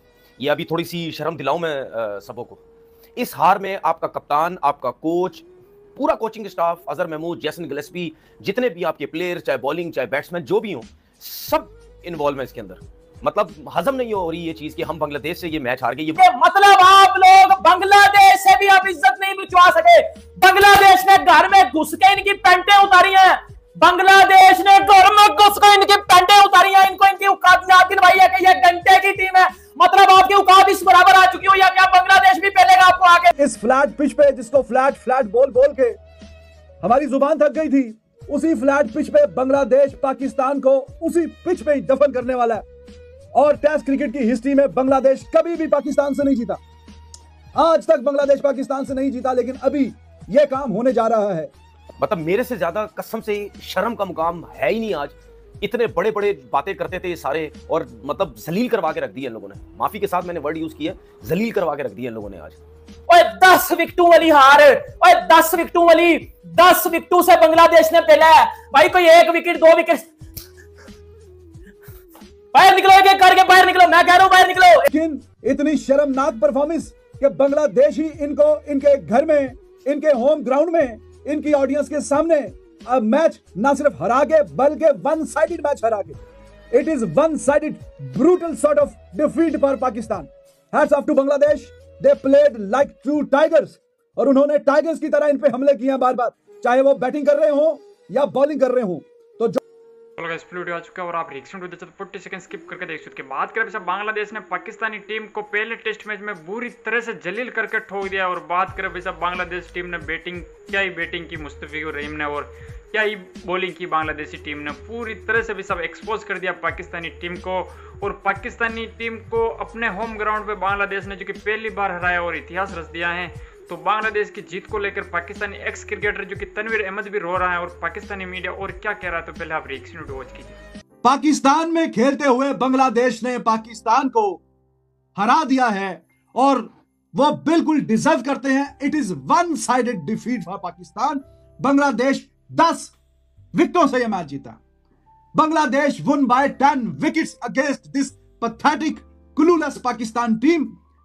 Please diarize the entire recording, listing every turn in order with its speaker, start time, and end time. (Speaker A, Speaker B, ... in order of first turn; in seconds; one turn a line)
Speaker A: 0.4-2.6
Speaker A: 3.2-16.2
Speaker B: 16.2-33.3
Speaker C: 33.3-36.0
Speaker C: 36.8-42.6
Speaker C: 43.3-46.6
Speaker C: 47.5-51.5
Speaker A: 52.0-62.6
Speaker B: 63.1-70.1
Speaker B: 72.5-74.9
Speaker C: 74.9-86.2
Speaker C: 86.7-99.6
Speaker D: 100.2-130.6
Speaker C: 131.0-134.4
Speaker C: 135.2-142.9
Speaker C: 143.5-144.6
Speaker C: 145.3-150.8